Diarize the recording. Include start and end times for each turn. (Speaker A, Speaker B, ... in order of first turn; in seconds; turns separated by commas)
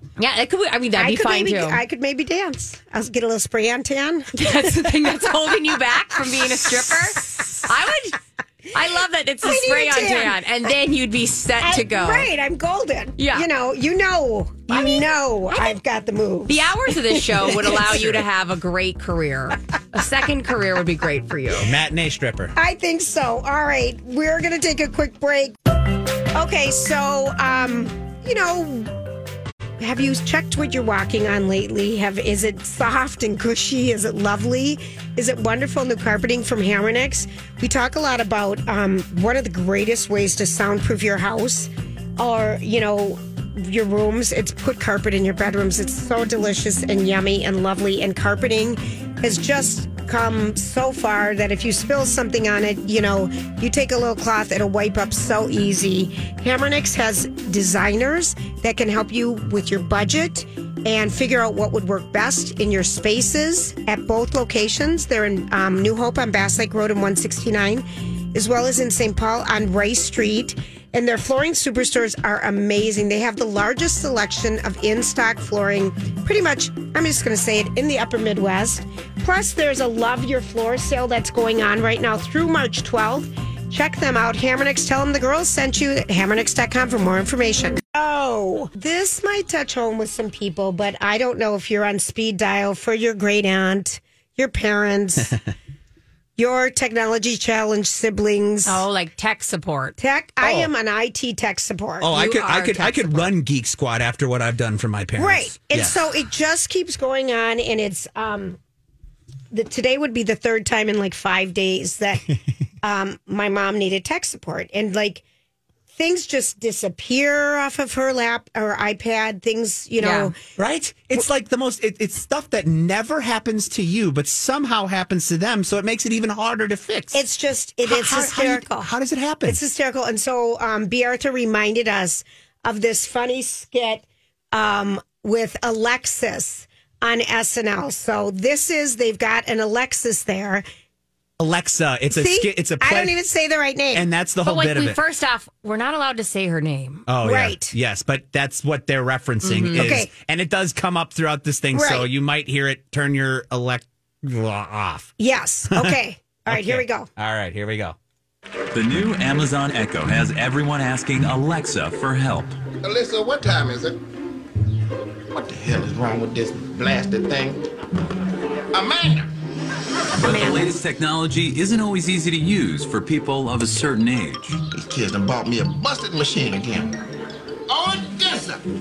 Speaker A: 0.2-1.8, Speaker B: 0.9-5.5, Speaker A: 4.3-8.2, Speaker B: 6.2-7.6, Speaker A: 8.7-12.3, Speaker B: 9.4-10.4, Speaker B: 11.6-18.1, Speaker A: 13.2-13.4, Speaker A: 14.7-15.8, Speaker A: 16.4-21.7, Speaker C: 21.6-22.5, Speaker B: 22.6-25.6, Speaker B: 26.3-28.9, Speaker B: 29.8-95.3, Speaker B: 96.4-98.8, Speaker A: 98.6-100.0, Speaker B: 100.0-102.1, Speaker C: 100.4-100.7, Speaker C: 102.0-106.0, Speaker A: 102.1-103.3, Speaker B: 105.2-108.6, Speaker B: 109.5-112.2, Speaker B: 112.8-115.2, Speaker B: 115.9-120.3, Speaker A: 120.0-120.3, Speaker C: 120.6-127.2, Speaker B: 127.1-128.9, Speaker C: 127.8-129.6, Speaker B: 129.4-140.6, Speaker C: 141.4-143.2, Speaker B: 142.1-144.1, Speaker C: 143.9-145.0, Speaker A: 144.4-147.0, Speaker C: 147.1-155.1, Speaker B: 147.2-147.7, Speaker A: 149.4-149.8, Speaker B: 149.7-150.1, Speaker B: 151.7-152.1, Speaker B: 155.2-157.1, Speaker C: 155.7-157.9, Speaker D: 158.7-162.6, Speaker E: 162.8-164.0, Speaker E: 165.3-167.6, Speaker E: 168.7-169.3, Speaker D: 170.2-174.6, Speaker E: 174.7-176.9, Speaker E: 177.7-178.6